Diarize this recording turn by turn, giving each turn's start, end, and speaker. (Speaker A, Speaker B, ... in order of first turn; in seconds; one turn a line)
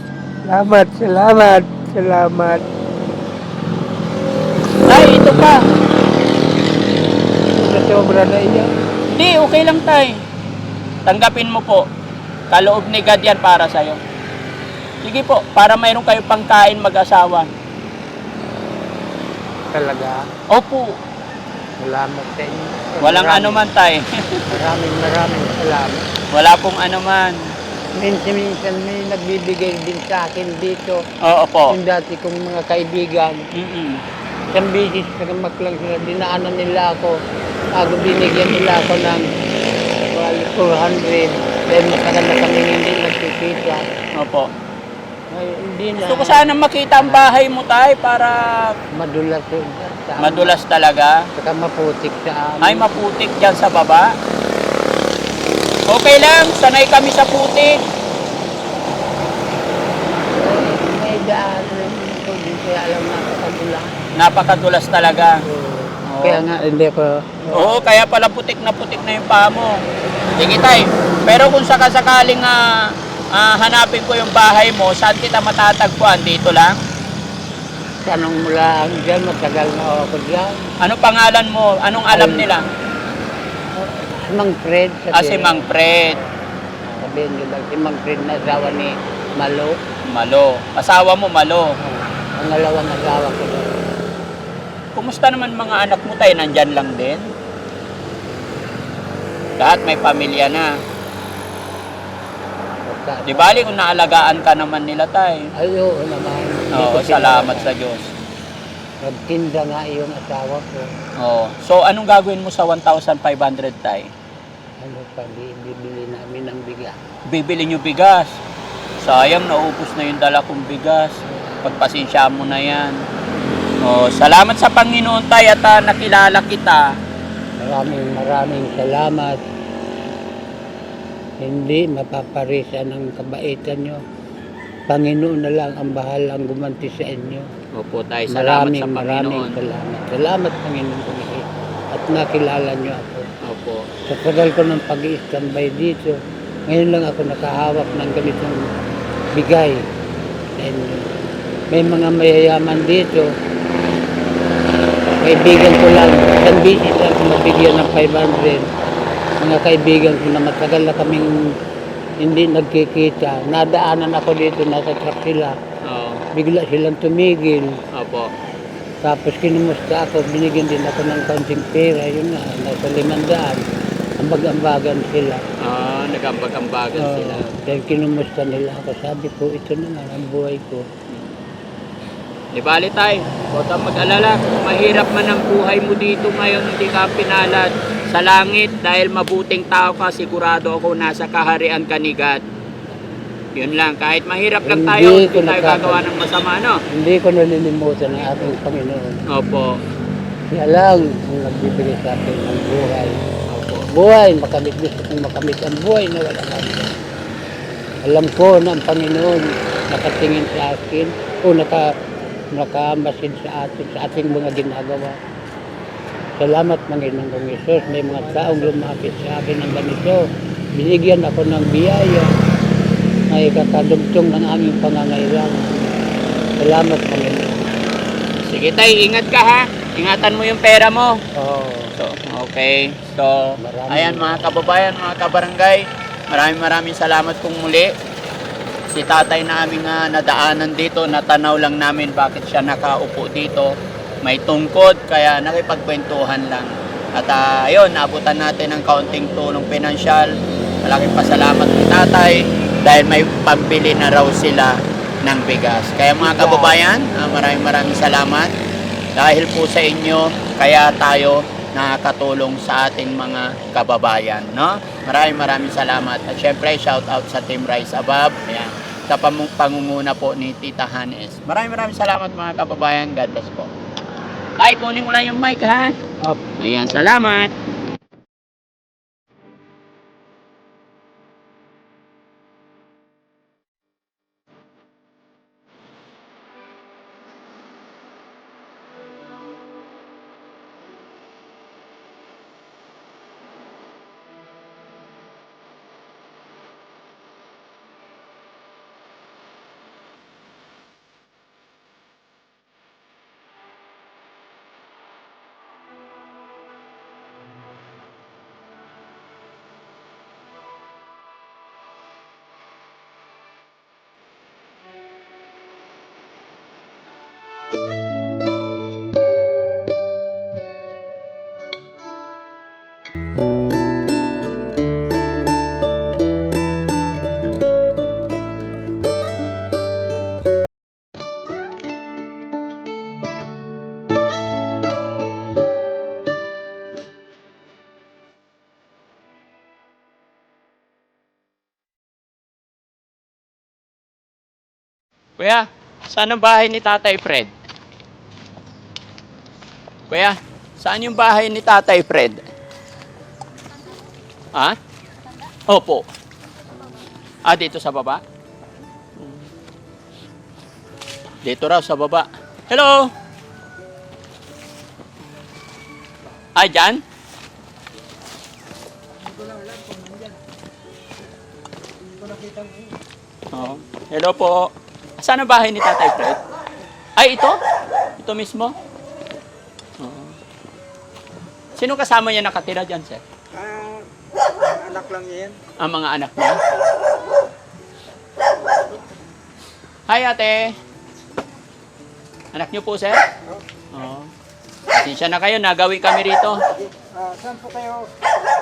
Speaker A: 0.4-2.6
Speaker B: 4.8-5.6
Speaker A: 7.5-8.7
Speaker B: 9.1-10.2
Speaker B: 11.1-11.9
Speaker B: 12.5-14.0
Speaker B: 15.0-17.5
Speaker A: 19.7-20.2
Speaker B: 20.5-20.9
Speaker A: 21.8-23.6
Speaker B: 23.0-24.4
Speaker A: 24.5-26.1
Speaker B: 26.3-27.4
Speaker A: 27.9-31.0
Speaker B: 31.2-31.8
Speaker A: 31.7-33.5
Speaker B: 33.5-34.0
Speaker A: 34.5-37.2
Speaker A: 37.7-39.2
Speaker A: 40.1-43.8
Speaker B: 44.1-44.5
Speaker A: 45.3-47.3
Speaker B: 46.0-48.7
Speaker A: 48.9-50.6
Speaker B: 50.2-51.3
Speaker A: 51.4-52.9
Speaker B: 52.6-54.1
Speaker B: 55.9-57.8
Speaker A: 60.2-64.0
Speaker B: 64.2-65.4
Speaker A: 65.5-67.9
Speaker B: 66.0-66.4
Speaker B: 67.5-69.8
Speaker B: 70.3-76.8
Speaker A: 78.0-80.6
Speaker B: 80.8-82.6
Speaker A: 82.1-82.5
Speaker A: 83.7-85.7
Speaker B: 85.1-86.2
Speaker A: 86.8-89.8
Speaker B: 90.0-91.7
Speaker A: 91.8-93.8
Speaker B: 94.9-97.3
Speaker B: 99.6-100.8
Speaker A: 102.8-103.7
Speaker B: 103.2-105.5
Speaker A: 105.5-107.7
Speaker B: 106.7-108.1
Speaker A: 109.0-110.9
Speaker B: 111.2-114.1
Speaker A: 114.8-117.0
Speaker B: 117.3-118.3
Speaker B: 119.0-123.0
Speaker B: 123.8-126.9
Speaker A: 127.6-129.4
Speaker A: 131.4-134.0
Speaker A: 134.9-137.5
Speaker B: 137.7-139.6
Speaker A: 138.3-143.3
Speaker B: 143.4-143.9
Speaker A: 144.0-148.7
Speaker A: 149.3-149.9
Speaker A: 150.5-151.2
Speaker A: 151.7-153.3
Speaker A: 155.2-158.7
Speaker A: 159.4-161.4
Speaker A: 162.2-165.6
Speaker B: 165.8-166.2
Speaker A: 166.3-167.8
Speaker B: 167.9-168.3
Speaker A: 169.0-173.6
Speaker A: 174.2-175.4
Speaker B: 175.6-177.5
Speaker A: 176.9-180.8
Speaker B: 181.1-181.3
Speaker B: 182.5-192.4
Speaker B: 193.6-196.8
Speaker A: 194.6-196.0
Speaker A: 196.9-199.2
Speaker B: 199.3-199.8
Speaker A: 200.5-203.3
Speaker B: 203.5-203.9
Speaker A: 203.9-207.0
Speaker A: 208.0-211.9
Speaker A: 212.5-215.2
Speaker A: 216.4-222.3
Speaker A: 223.3-227.7
Speaker B: 228.5-231.2
Speaker A: 231.3-231.9
Speaker B: 232.0-237.9
Speaker A: 233.6-234.4
Speaker B: 238.9-250.3
Speaker B: 250.8-258.5
Speaker A: 256.2-256.8
Speaker B: 259.1-273.7
Speaker B: 274.6-276.0
Speaker B: 276.6-277.5
Speaker B: 345.4-347.5
Speaker B: 350.1-352.4
Speaker B: 355.7-356.1
Speaker B: 357.4-358.2
Speaker B: 361.4-363.1
Speaker B: 366.5-367.0
Speaker C: 369.1-370.4
Speaker C: 372.1-372.9
Speaker B: 373.5-376.4
Speaker B: 377.2-377.6
Speaker B: 378.2-378.7
Speaker B: 380.0-380.3
Speaker B: 381.8-383.2
Speaker C: 383.5-384.1
Speaker C: 384.6-385.6
Speaker B: 385.8-386.6
Speaker B: 390.1-390.7
Speaker B: 392.5-393.2
Speaker B: 393.9-394.3
Speaker B: 394.9-396.6
Speaker C: 396.7-398.3